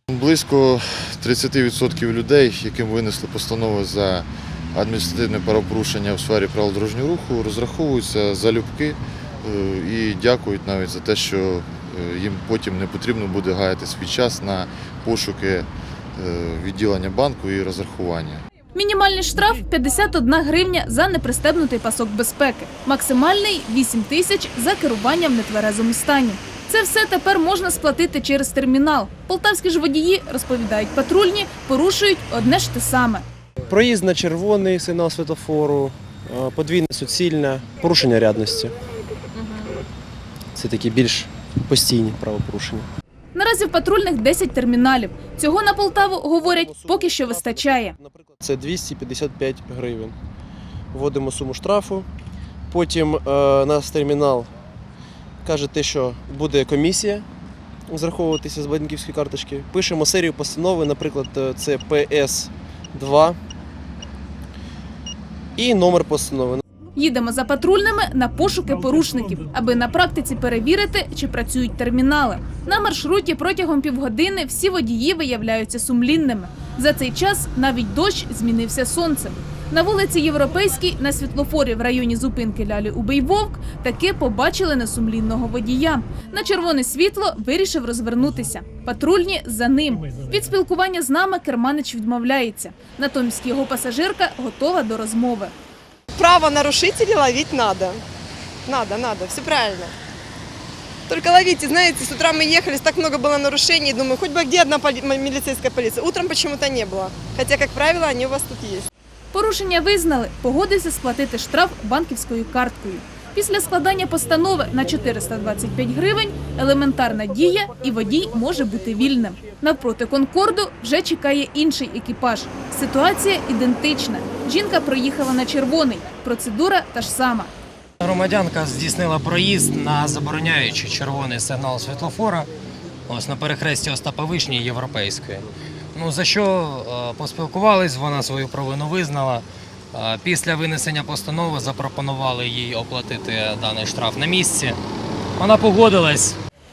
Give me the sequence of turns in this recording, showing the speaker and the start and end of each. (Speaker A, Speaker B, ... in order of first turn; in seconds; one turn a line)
Speaker A: 0.1-18.4
Speaker B: 18.7-33.2
Speaker C: 33.7-38.8
Speaker B: 39.3-39.7
Speaker C: 40.5-42.9
Speaker B: 43.3-48.0
Speaker C: 46.4-50.2
Speaker C: 50.9-52.1
Speaker C: 52.7-54.5
Speaker C: 55.4-57.2
Speaker C: 57.9-63.4
Speaker C: 65.6-66.6
Speaker B: 67.0-95.5
Speaker D: 96.1-98.0
Speaker D: 98.6-99.9
Speaker D: 101.1-108.9
Speaker B: 109.3-127.5
Speaker E: 128.0-132.5
Speaker E: 133.1-144.8
Speaker E: 145.4-146.4